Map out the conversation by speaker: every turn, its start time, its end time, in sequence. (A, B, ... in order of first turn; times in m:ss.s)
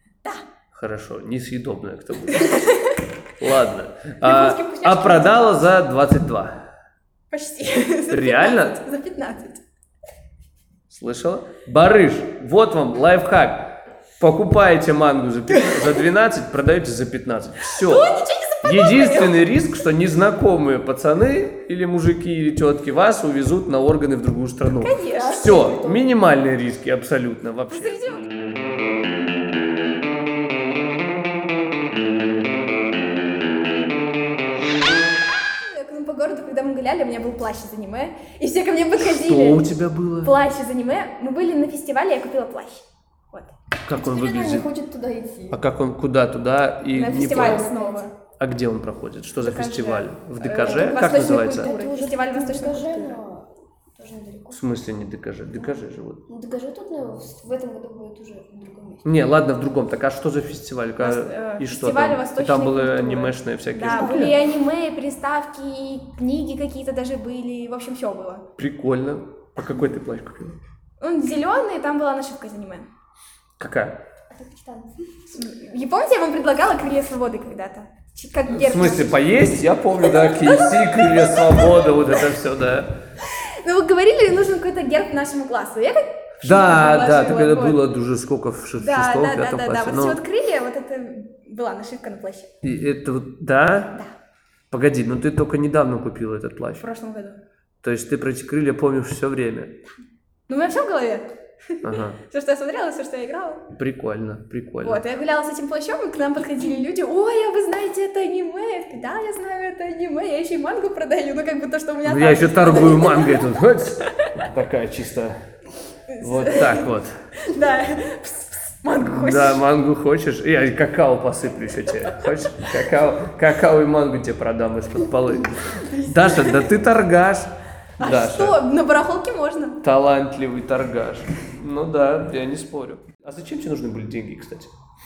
0:00.7-0:02.6 A
0:02.3-0:03.0 B
0:03.4-0:06.6 A
0:04.2-0:05.6 B
0:07.3-0:09.6 B
0:08.1-0:08.8 A
0:10.9-0:18.1 A
0:15.5-0:15.9 B
0:17.6-0:19.4 B
0:18.6-0:28.2 A
0:24.7-0:25.7 B
0:25.1-0:26.0 C
0:27.7-0:28.2 B
0:35.5-0:39.7 B
0:39.0-0:40.4 A
0:40.2-0:43.5 B
0:43.8-0:44.7 A
0:43.9-0:45.6 C
0:45.5-0:47.6 A
0:46.9-0:48.1 B
0:47.2-0:48.0 C
0:48.4-0:51.7 A
0:49.4-0:53.2 B
0:50.6-0:54.6 C
0:54.5-0:56.2 A
0:55.6-0:59.2 C
0:59.0-1:04.4 A
1:01.0-1:08.4 B
1:03.8-1:04.4 C
1:08.6-1:10.6 A
1:11.0-1:12.9 B
1:13.6-1:13.9 A
1:14.3-1:15.1 C
1:15.3-1:19.5 B
1:18.5-1:22.9 A
1:20.2-1:21.5 B
1:23.2-1:27.8 B
1:26.4-1:30.2 A
1:28.8-1:32.5 B
1:32.6-1:33.9 A
1:34.7-1:36.8 A
1:36.8-1:37.4 B
1:37.8-1:39.8 A
1:40.5-1:43.6 B
1:41.8-1:42.2 A
1:43.7-1:45.0 A
1:44.8-1:53.4 B
1:52.0-1:55.4 A
1:56.1-1:59.6 B
1:56.2-1:57.1 A
1:59.0-2:08.6 A
2:05.8-2:06.7 B
2:08.0-2:09.8 B
2:09.8-2:14.7 A